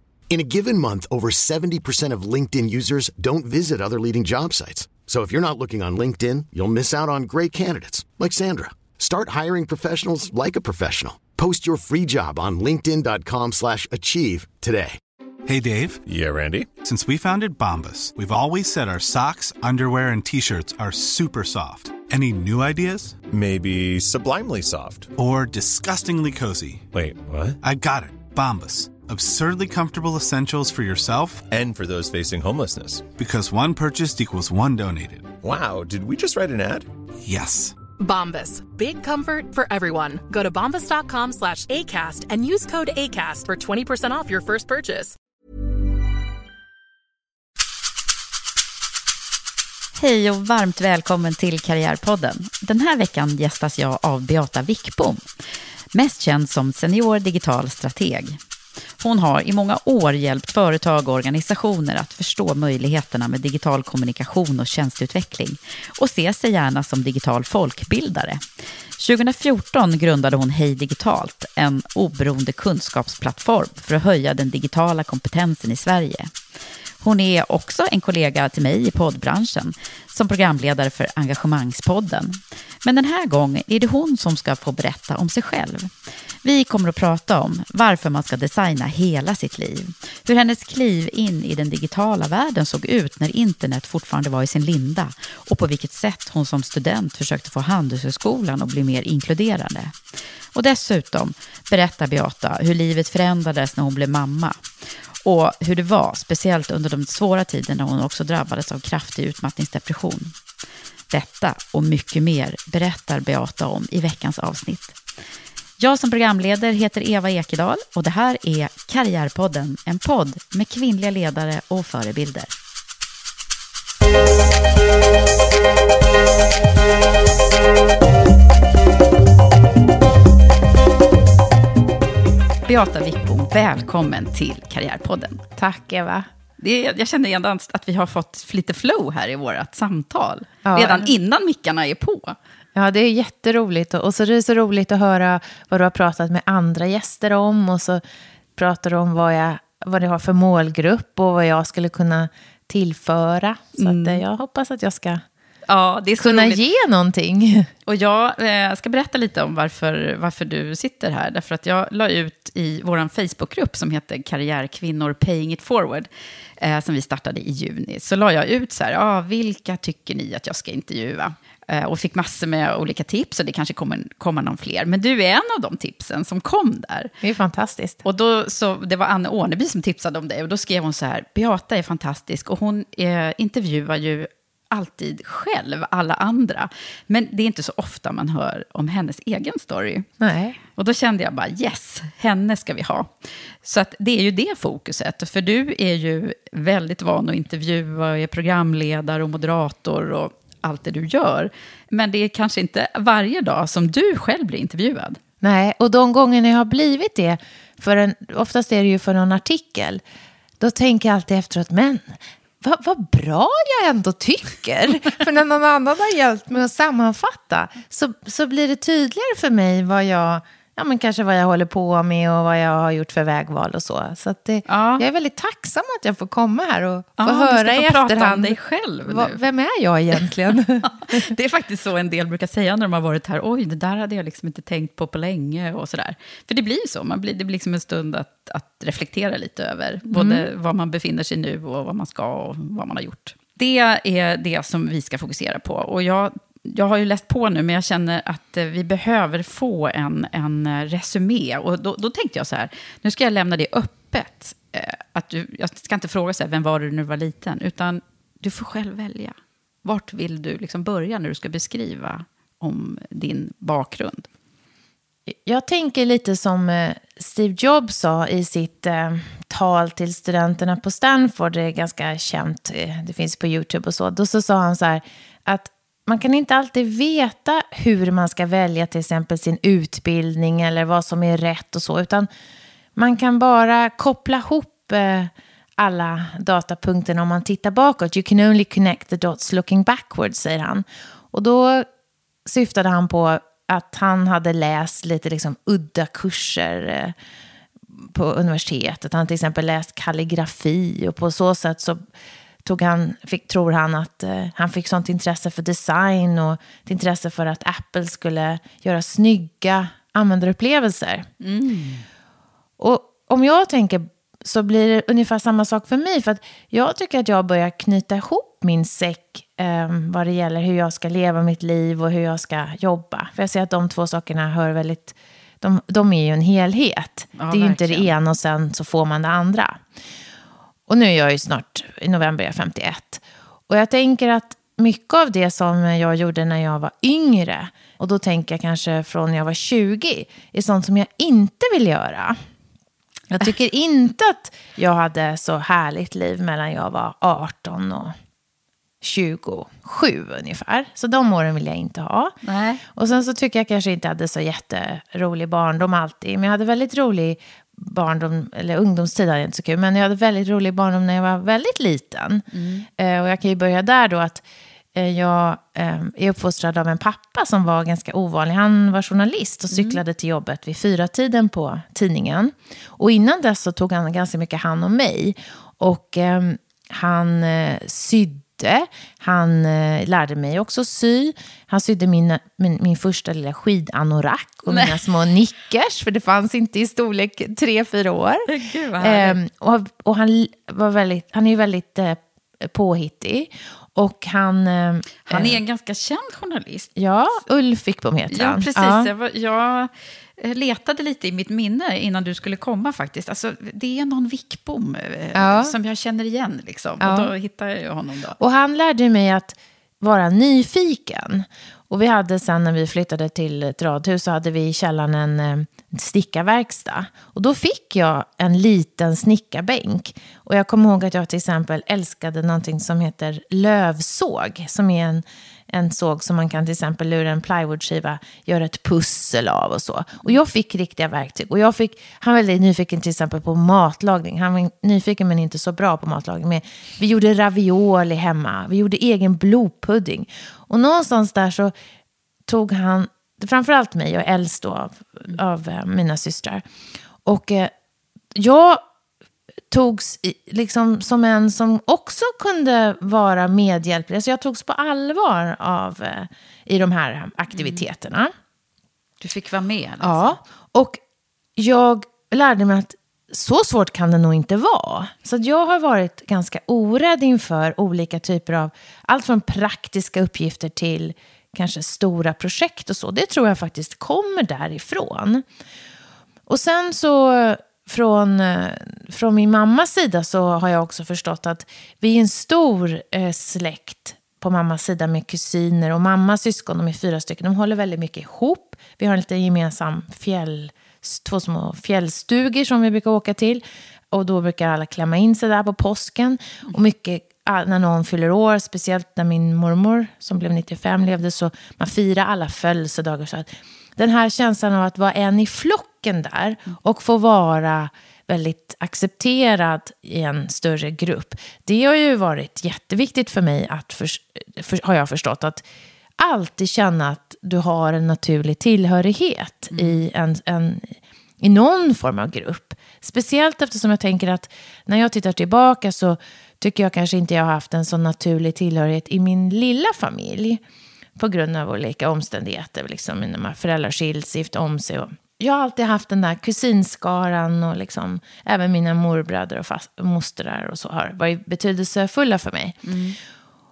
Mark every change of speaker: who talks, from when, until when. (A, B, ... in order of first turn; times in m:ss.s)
0:00.3-0:15.0 A
0:15.4-0:16.0 B
0:16.0-0:16.7 C
0:16.8-0:23.2 B
0:23.3-0:25.1 C
0:25.2-0:26.9 B
0:26.9-0:27.6 C
0:27.6-0:31.4 B
0:31.5-0:33.0 C
0:33.2-0:35.4 B
0:35.4-0:36.9 C
0:37.2-0:37.8 B
0:38.0-0:45.2 D
0:50.0-0:55.2 E
0:55.9-0:58.4 E
0:59.0-1:08.4 E
1:09.0-1:16.3 E
1:17.0-1:25.9 E
1:26.4-1:39.9 E
1:40.5-1:44.6 E
1:45.2-1:50.3 E
1:51.1-1:55.0 E
1:55.8-2:02.5 E
2:12.7-2:15.4 E
2:15.6-2:16.3 F
2:16.6-2:22.4 E
2:20.6-2:21.1 F
2:22.8-2:28.0 F
2:28.6-2:35.2 F
2:33.8-2:34.2 E
2:35.7-2:36.6 E
2:36.2-2:37.7 F
2:37.9-2:46.1 E
2:46.6-2:57.1 E
2:57.2-2:58.0 F
2:58.0-3:10.1 E
3:10.2-3:10.6 F
3:10.8-3:13.1 E
3:13.6-3:25.2 E
3:25.4-3:30.0 F
3:30.6-3:51.3 F
3:44.7-3:45.0 E
3:47.2-3:49.4 E
3:50.9-4:24.3 E
4:00.1-4:00.5 F
4:25.3-4:42.3 F
4:43.0-4:51.9 F
4:52.4-4:57.1 F
4:58.0-5:02.1 F
5:02.6-5:11.2 F
5:11.4-5:12.0 E
5:12.8-5:29.8 F
5:27.4-5:28.1 E
5:30.9-5:42.4 F
5:43.3-5:48.1 F
5:49.0-5:52.4 F
5:52.4-5:52.8 E
5:52.9-6:04.4 F
6:02.5-6:02.9 E
6:04.9-6:35.6 F
6:09.7-6:10.0 E
6:24.7-6:25.0 E
6:28.4-6:29.4 E
6:35.2-6:36.9 E
6:37.0-6:39.1 F
6:38.3-6:48.4 E
6:45.3-6:45.8 F
6:47.0-6:47.3 F
6:48.4-7:21.7 F
7:22.4-7:26.6 F
7:27.2-7:27.7 F
7:28.3-7:28.8 F
7:29.7-7:38.3 F
7:37.5-7:37.8 E
7:39.2-7:40.4 E
7:40.0-7:41.0 F
7:41.6-7:55.4 F
7:56.5-8:35.6 F
8:36.2-8:50.6 F
8:39.7-8:40.0 E
8:51.2-9:03.0 F
9:02.8-9:03.2 E